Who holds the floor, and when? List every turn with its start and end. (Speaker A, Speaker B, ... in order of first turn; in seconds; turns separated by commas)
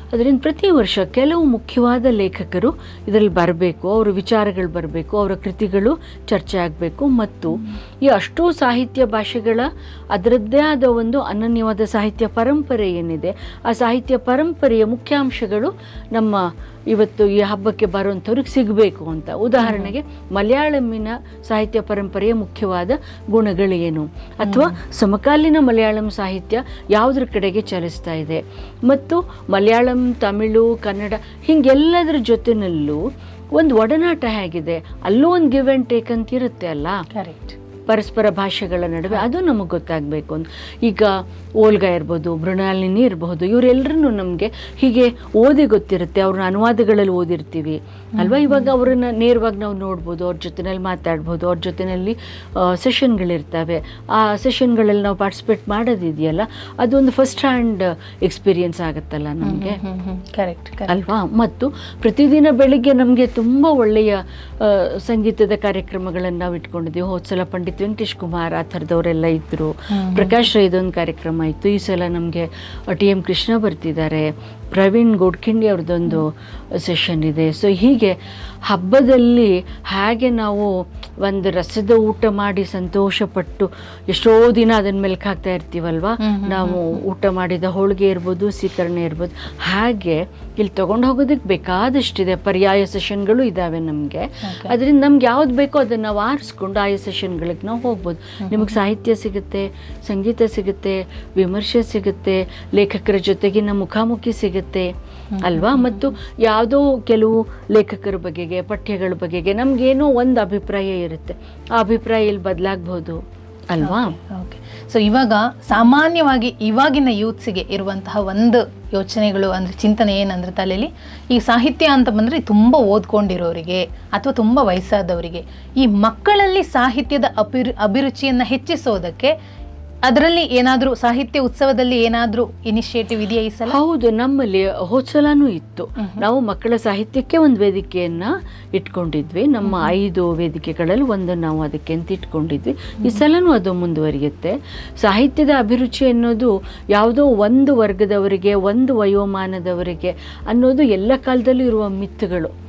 Speaker A: 0.1-33.0, Speaker B: 19.6-19.9, Speaker B: 24.4-24.8, Speaker A: 33.5-37.0, Speaker B: 37.1-37.6, Speaker A: 37.9-59.8, Speaker B: 48.2-48.7, Speaker B: 59.4-60.9, Speaker A: 60.9-114.1, Speaker B: 69.9-70.4, Speaker B: 86.2-87.0, Speaker B: 94.4-94.7, Speaker B: 98.4-98.7, Speaker B: 105.3-106.0, Speaker B: 113.8-129.3, Speaker B: 130.1-133.8, Speaker A: 133.7-152.5, Speaker B: 139.6-139.9